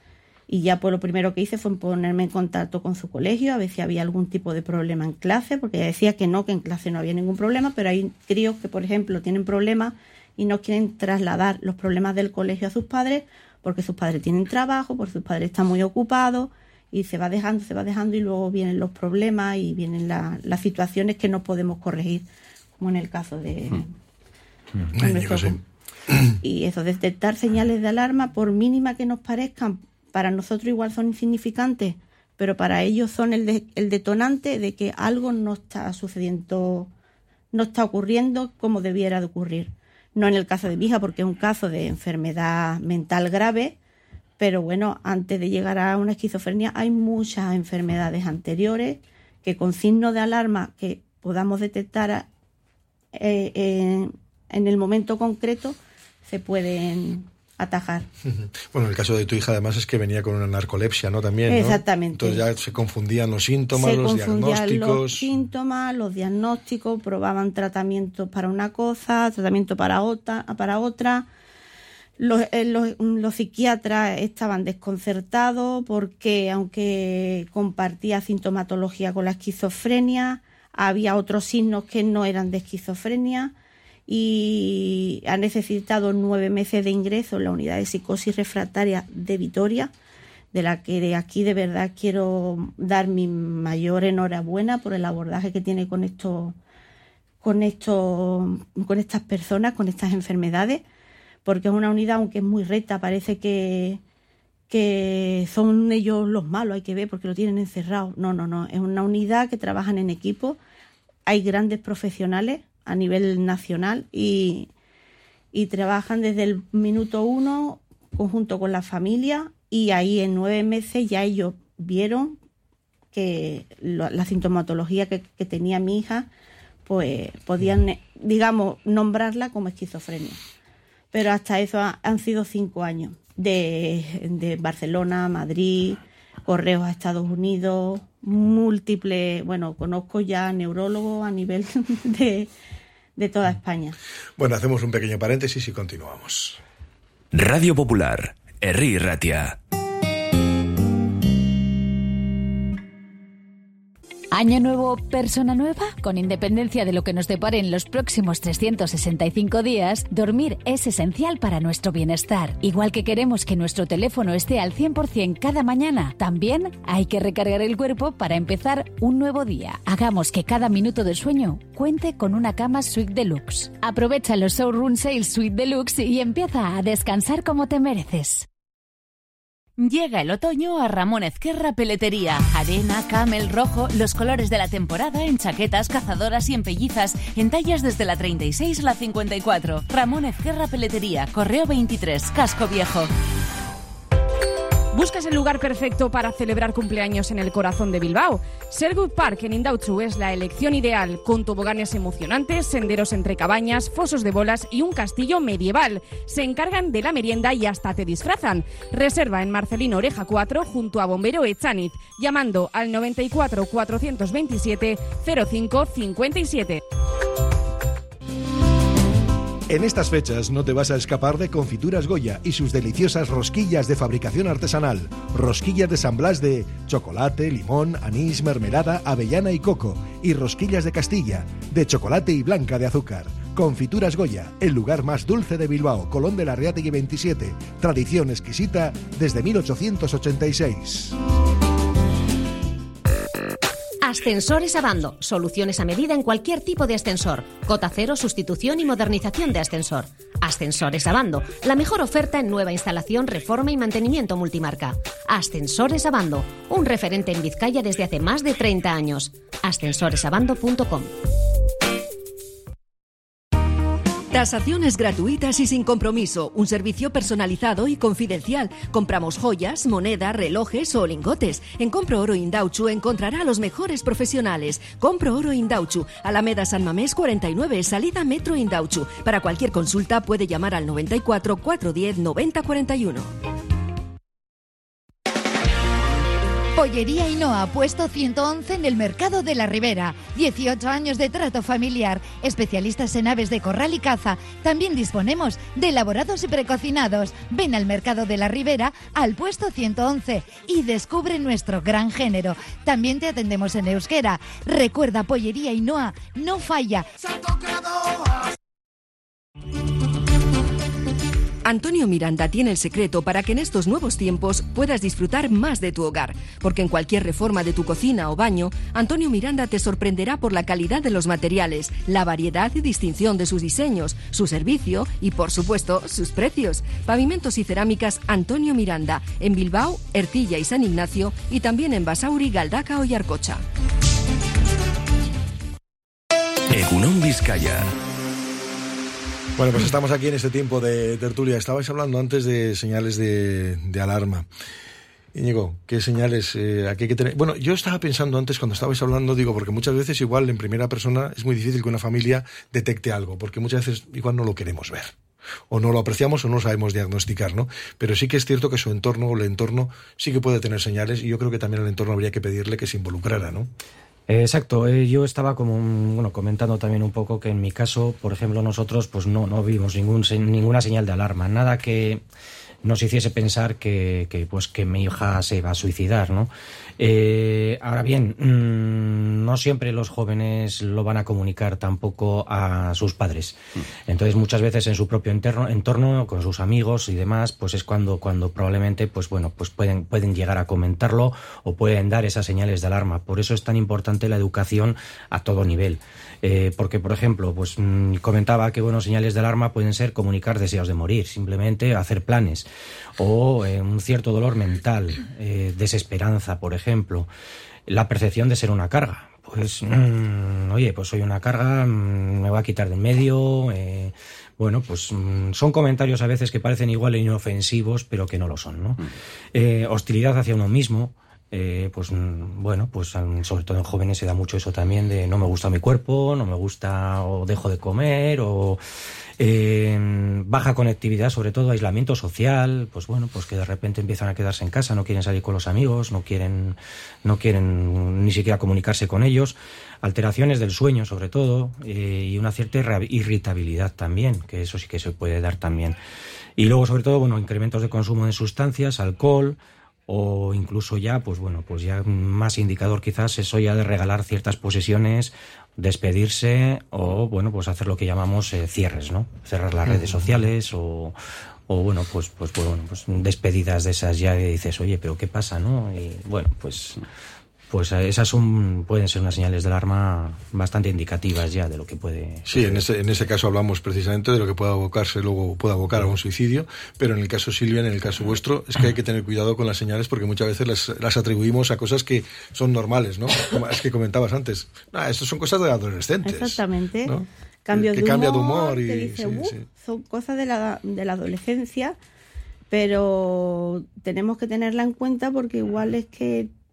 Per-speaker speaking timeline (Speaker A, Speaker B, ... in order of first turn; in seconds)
Speaker A: 0.5-22.2, 22.8-23.9, 24.9-25.6, 26.4-36.9, 37.5-43.8, 44.4-52.3, 53.1-58.1, 61.5-62.4, 63.7-71.3, 72.2-83.5, 84.1-89.9, 90.5-96.5, 97.4-100.8, 101.4-104.0, 104.7-110.6, 111.2-114.7, 115.5-122.4, 123.1-126.3, 126.8-130.4, 131.1-142.5, 143.2-144.0, 486.2-487.1, 487.6-491.9, 492.7-496.5
Speaker B: 24.9-25.6, 26.1-26.4, 58.2-65.3, 144.4-146.6, 219.7-241.2, 339.6-344.5, 345.3-355.1, 355.7-363.7, 472.5-489.6
Speaker C: 147.3-149.6, 336.7-337.9
Speaker D: 154.3-178.5
Speaker E: 179.8-193.1
Speaker F: 194.9-216.8
Speaker G: 244.0-261.1
Speaker H: 264.3-283.3, 311.6-333.6
Speaker I: 286.7-307.1
Speaker J: 364.3-372.2, 372.8-402.6, 403.2-407.3, 407.9-428.8, 429.4-445.9, 446.6-461.1, 461.7-467.0, 467.7-472.8